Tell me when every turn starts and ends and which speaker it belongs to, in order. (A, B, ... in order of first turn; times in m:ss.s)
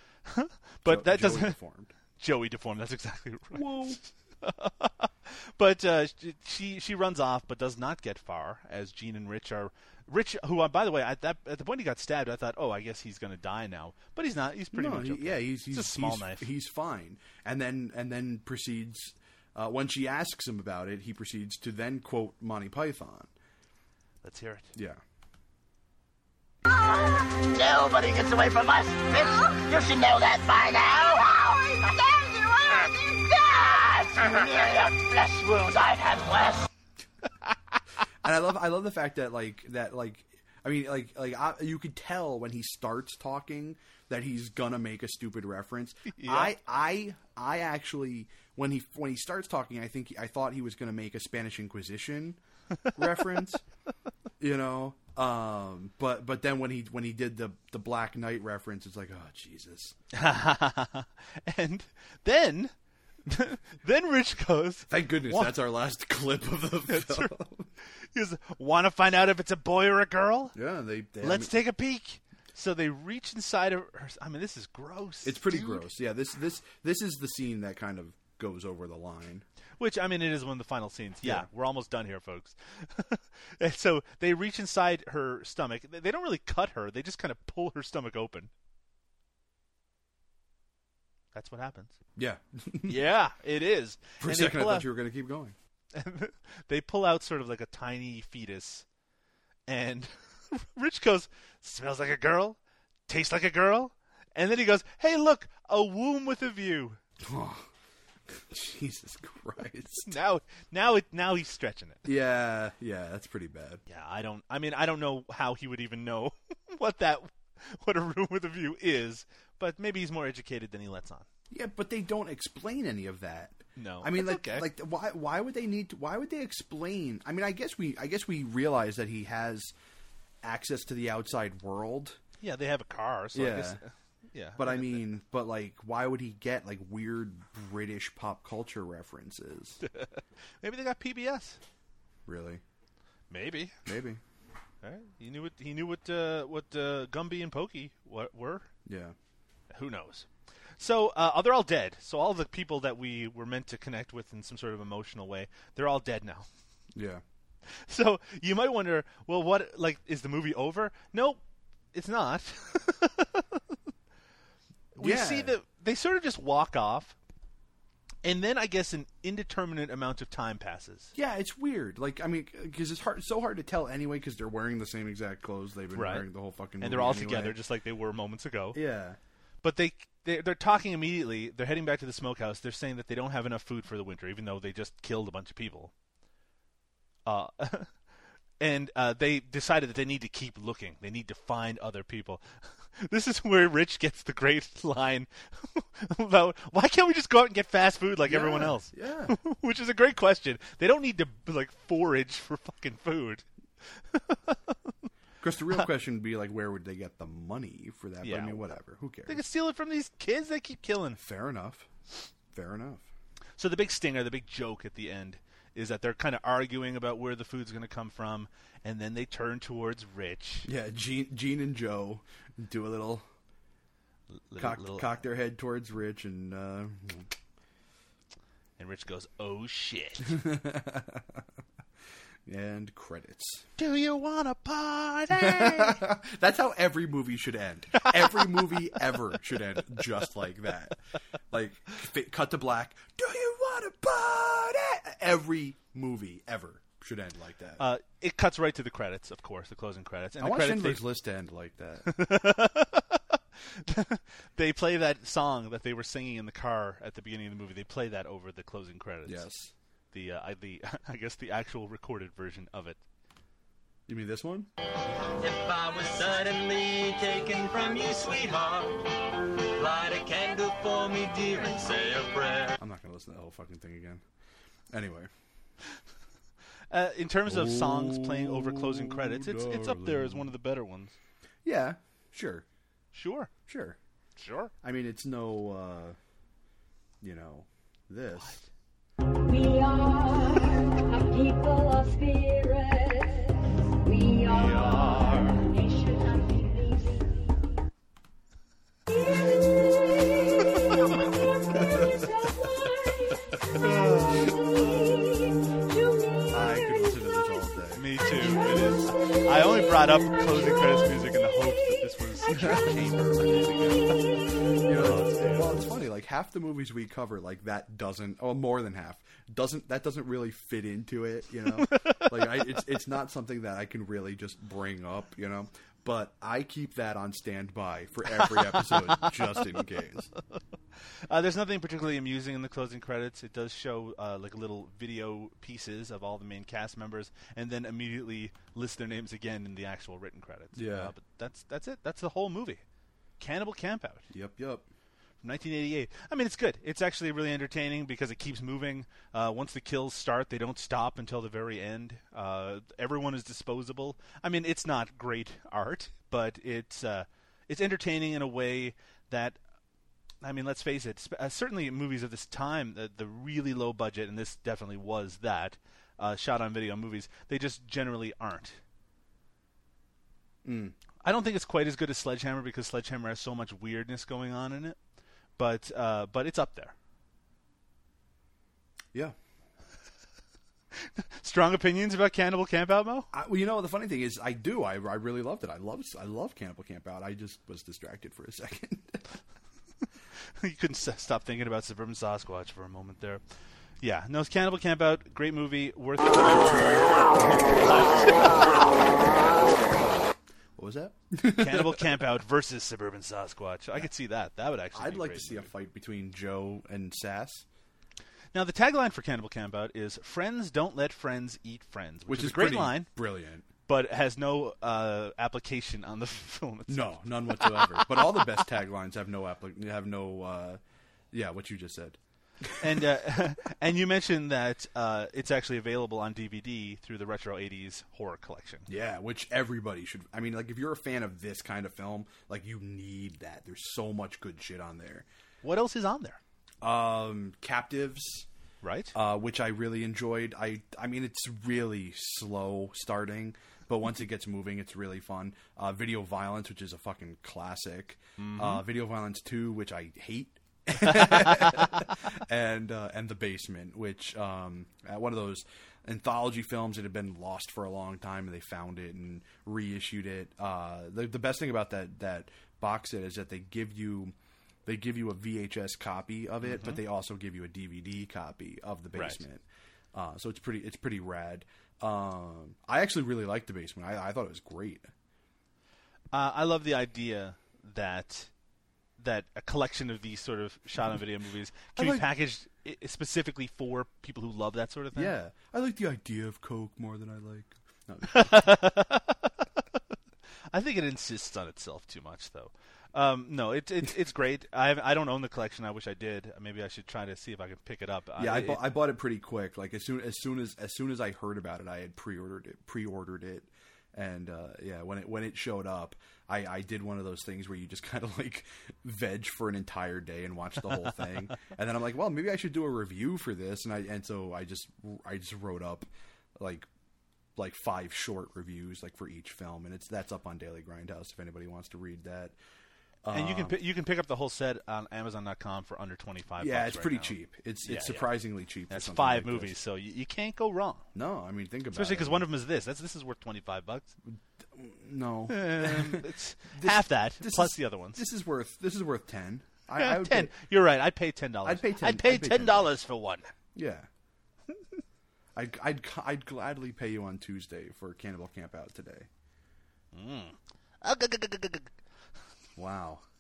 0:00.3-0:01.6 A
0:00.8-0:01.9 B
0:02.2-0:16.5 A
0:03.5-0:04.0 B
0:14.7-0:23.3 B
0:24.2-0:24.7 A
0:24.7-0:25.0 B
0:26.7-0:36.7 C
0:38.2-0:52.4 B
0:46.1-0:46.5 A
0:52.9-0:53.6 B
0:54.4-1:00.0 B
1:00.1-1:02.7 A
1:03.3-1:05.6 A
1:04.9-1:07.7 B
1:06.9-1:07.3 A
1:08.1-1:10.6 A
1:10.5-1:11.6 B
1:11.2-1:15.8 A
1:15.2-1:19.5 B
1:19.8-1:28.5 A
1:21.2-1:21.5 B
1:31.3-1:32.0 A
1:32.2-1:33.0 B
1:32.9-1:34.9 A
1:34.2-1:35.6 B
1:35.9-1:38.8 A
1:39.7-1:47.0 A
1:47.2-1:47.7 B
1:48.3-1:50.2 B
1:50.0-1:52.1 A
1:52.0-1:53.8 B
1:53.9-2:01.3 A
2:01.5-2:09.7 B
2:03.8-2:04.7 A
2:10.4-2:12.2 B
2:12.4-2:15.0 A
2:13.3-2:13.8 B
2:14.6-2:19.8 B
2:19.8-2:21.6 A
2:22.3-2:22.6 B
2:23.3-2:23.8 A
2:23.9-2:24.2 B
2:24.8-2:28.7 A
2:28.9-2:29.2 B
2:29.7-2:36.5 A
2:36.9-2:37.2 B
2:37.8-2:41.4 A
2:41.9-2:43.6 A
2:45.0-2:47.2 A
2:45.0-2:45.5 B
2:48.2-2:51.1 A
2:51.2-2:57.6 B
2:55.9-2:56.3 A
2:56.8-2:58.8 A
2:58.7-2:59.2 B
2:59.6-3:05.9 A
3:07.3-3:07.9 A
3:08.6-3:24.8 A
3:18.2-3:19.4 B
3:25.4-3:29.4 B
3:28.2-3:28.7 A
3:29.3-3:31.2 A
3:31.2-3:31.9 B
3:32.5-3:33.1 B
3:33.6-3:40.7 A
3:40.6-3:43.3 B
3:44.5-3:45.2 A
3:44.6-3:47.3 B
3:48.8-3:50.4 A
3:50.2-3:51.4 B
3:52.5-3:53.7 B
3:53.8-3:56.0 A
3:55.3-4:07.8 B
3:58.0-3:58.6 A
4:07.8-4:11.0 A
4:10.4-4:12.2 B
4:12.1-4:19.5 A
4:19.2-4:19.7 B
4:20.1-4:23.0 A
4:24.1-4:24.7 B
4:25.4-4:29.0 D
4:29.8-4:32.8 D
4:32.8-4:34.2 B
4:34.9-4:35.3 B
4:36.9-4:41.2 A
4:37.5-4:40.5 B
4:41.6-4:42.6 B
4:43.1-4:43.5 A
4:43.7-4:44.0 B
4:44.4-4:44.7 A
4:44.8-4:46.2 B
4:47.2-4:48.7 B
4:48.4-4:48.6 A
4:49.5-4:57.6 E
4:54.5-4:55.7 A
5:01.8-5:02.1 B
5:03.8-5:04.6 A
5:06.5-5:08.1 B
5:07.9-5:14.2 A
5:12.5-5:13.4 B
5:14.8-5:30.3 B
5:14.9-5:15.8 A
5:21.8-5:22.5 A
5:28.9-5:29.3 A
5:31.3-5:42.8 A
5:40.8-5:41.1 B
5:43.4-5:44.3 A
5:44.3-5:44.9 B
5:45.4-5:59.6 A
6:00.4-6:08.8 A
6:10.6-6:11.0 B
6:11.2-6:15.0 A
6:15.6-6:16.9 A
6:21.0-6:23.3 A
6:23.3-6:29.2 B
6:30.6-6:33.4 A
6:34.0-6:39.3 A
6:40.8-6:42.1 B
6:41.5-6:45.7 A
6:44.9-6:47.6 B
6:48.5-6:53.1 A
6:52.3-6:53.7 B
6:53.9-6:58.2 A
6:56.9-7:00.8 B
7:01.3-7:02.8 B
7:02.8-7:08.9 A
7:08.9-7:15.3 B
7:15.6-7:16.4 A
7:16.8-7:18.5 B
7:18.8-7:19.1 A
7:19.1-7:44.3 B
7:28.4-7:28.8 A
7:31.4-7:31.8 A
7:44.9-7:55.1 B
7:46.6-7:47.0 A
7:49.2-7:49.4 A
7:56.3-7:58.5 A
7:59.2-8:05.4 A
8:02.0-8:02.3 B
8:05.1-8:08.7 B
8:08.3-8:09.5 A
8:10.7-8:18.9 A
8:18.4-8:36.9 B
8:37.6-8:42.6 B
8:43.2-8:43.8 B
8:43.3-8:48.3 A
8:46.6-8:49.8 B
8:48.9-8:51.1 A
8:51.1-8:52.5 B
8:51.9-8:54.1 A
8:54.3-9:00.5 B
8:55.5-8:58.2 A
9:00.0-9:03.5 A
9:01.6-9:03.0 B
9:03.7-9:04.1 B
9:05.6-9:09.3 B
9:10.1-9:11.9 A
9:12.8-9:13.2 B